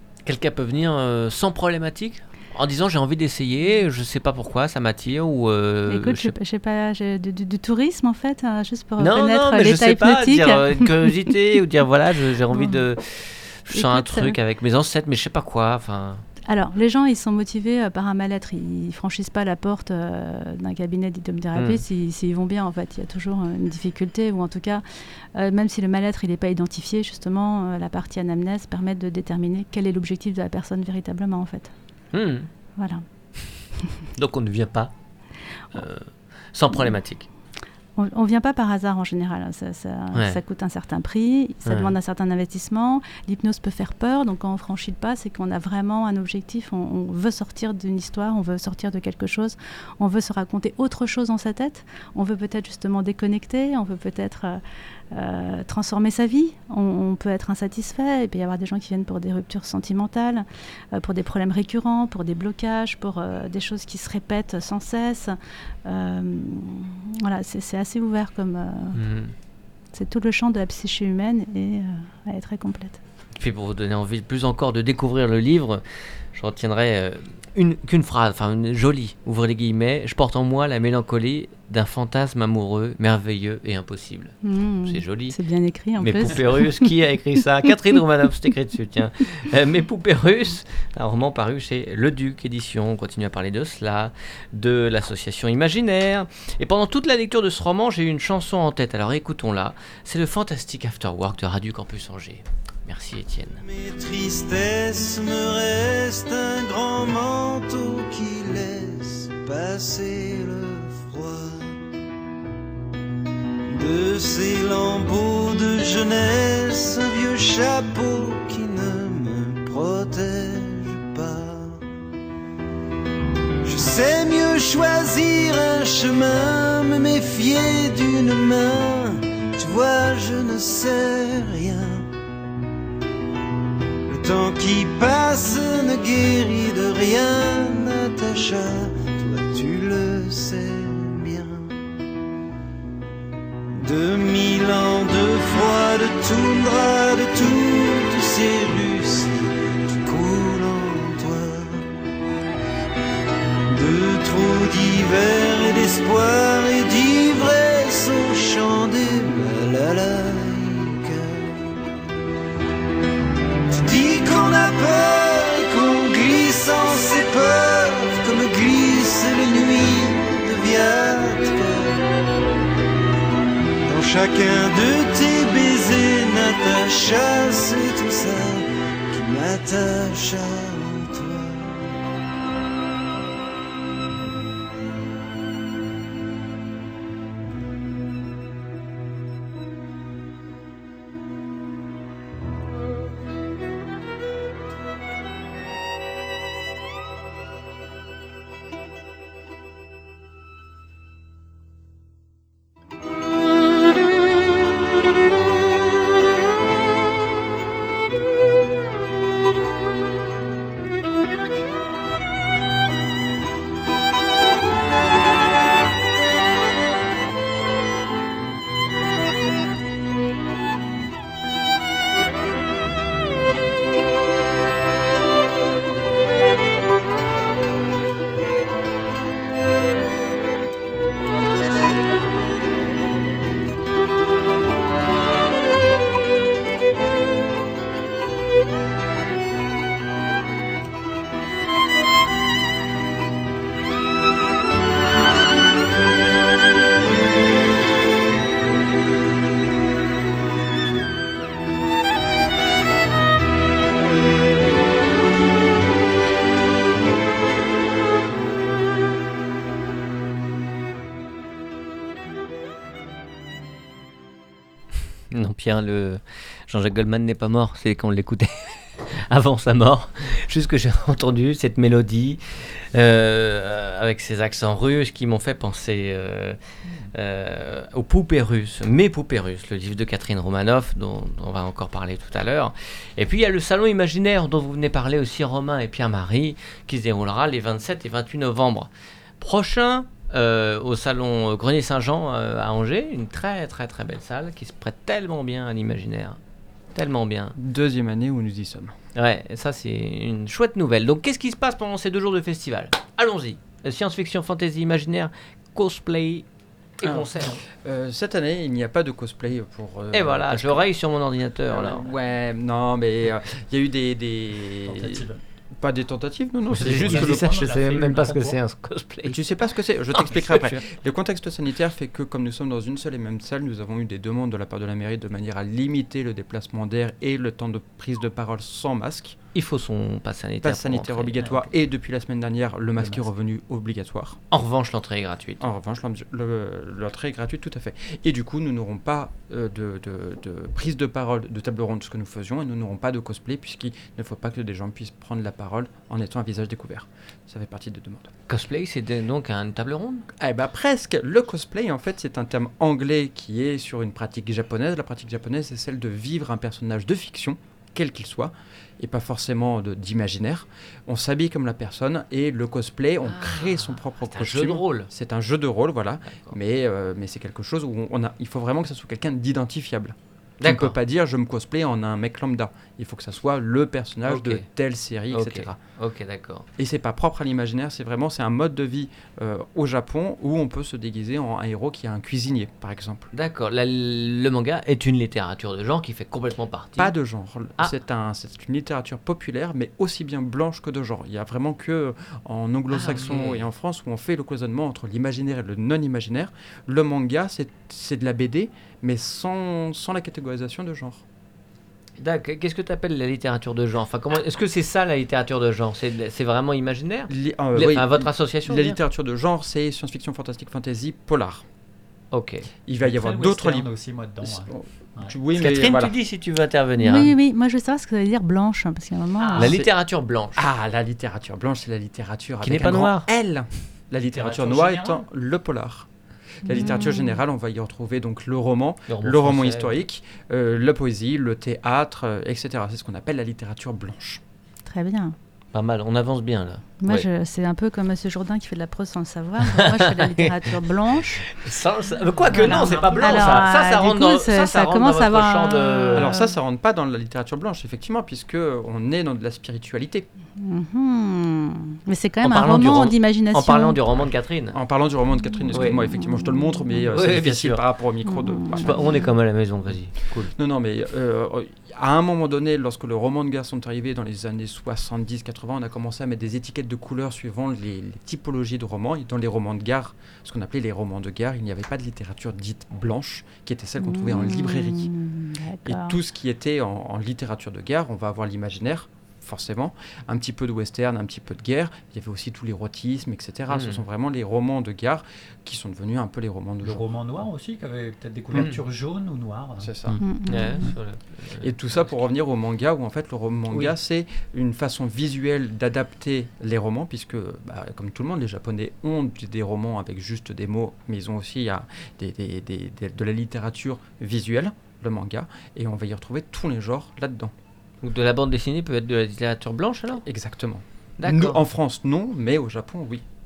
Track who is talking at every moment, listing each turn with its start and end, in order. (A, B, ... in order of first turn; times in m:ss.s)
0:00.3-0:06.3 A
0:05.9-0:10.9 B
0:09.0-0:16.2 A
0:12.5-0:12.8 B
0:13.7-0:14.4 B
0:16.5-0:24.8 B
0:21.6-0:21.8 A
0:25.4-0:31.7 B
0:32.1-0:32.5 A
0:32.8-0:33.0 B
0:34.2-0:34.9 A
0:35.7-0:37.3 A
0:38.0-0:54.6 B
0:40.1-0:40.4 A
0:41.7-0:41.9 A
0:55.1-1:09.0 B
1:08.9-1:09.3 A
1:09.9-1:13.0 B
1:13.4-1:25.4 A
1:24.4-1:26.9 B
1:26.0-1:43.6 A
1:43.7-1:51.8 C
1:53.7-2:01.8 C
2:03.6-2:12.1 C
2:14.1-2:21.8 C
2:23.7-2:31.9 C
2:33.7-2:41.5 C
2:43.7-2:52.0 C
2:53.8-3:01.8 C
4:25.3-4:36.6 A
4:37.1-4:48.9 A
4:49.4-4:56.4 A
4:57.0-4:57.6 A
4:57.6-4:59.0 D
4:59.2-5:06.4 A
5:07.0-5:07.6 A
5:07.0-5:10.9 D
5:10.1-5:12.2 A
5:11.7-5:17.6 D
5:14.9-5:15.4 E
5:16.7-5:19.4 A
5:16.8-5:18.6 E
5:19.3-5:29.4 D
5:20.2-5:20.8 A
5:29.5-5:31.6 A
5:30.6-5:34.4 D
5:34.5-5:35.6 A
5:35.6-5:48.3 D
5:48.5-5:50.3 A
5:50.4-6:15.8 D
6:03.2-6:05.1 A
6:06.3-6:06.6 A
6:10.6-6:11.0 A
6:14.3-6:14.7 A
6:15.3-6:16.7 A
6:16.8-6:23.3 D
6:23.3-6:27.1 A
6:27.0-6:41.2 D
6:32.9-6:33.6 A
6:42.2-6:49.0 A
6:47.3-6:51.6 D
6:52.3-6:52.6 A
6:52.9-6:53.9 D
6:53.0-6:55.3 E
6:54.4-6:56.1 D
6:55.5-6:57.3 A
6:57.0-6:59.8 B
6:59.4-6:59.7 E
6:59.6-7:00.6 A
6:59.6-6:59.9 D
7:00.6-7:06.1 D
7:02.6-7:03.3 A
7:04.3-7:05.3 E
7:06.6-7:14.4 D
7:06.7-7:07.4 B
7:09.1-7:10.0 A
7:14.9-7:15.4 B
7:15.7-7:17.3 A
7:17.0-7:21.4 B
7:19.7-7:20.7 A
7:21.4-7:26.3 A
7:22.5-7:23.7 E
7:22.6-7:26.5 B
7:26.2-7:30.3 D
7:30.6-7:34.0 B
7:32.4-7:34.8 A
7:34.7-7:39.1 D
7:35.4-7:37.0 B
7:35.7-7:36.0 A
7:37.1-7:37.8 A
7:38.3-7:39.3 B
7:38.8-7:40.5 A
7:40.4-7:55.1 D
7:54.0-7:56.2 B
7:55.9-8:07.1 D
8:03.7-8:04.0 A
8:06.8-8:10.2 E
8:08.5-8:08.8 A
8:09.8-8:10.2 D
8:10.2-8:10.9 B
8:10.5-8:12.0 A
8:11.6-8:27.5 D
8:28.0-8:30.2 A
8:30.2-8:33.2 D
8:31.2-8:31.6 A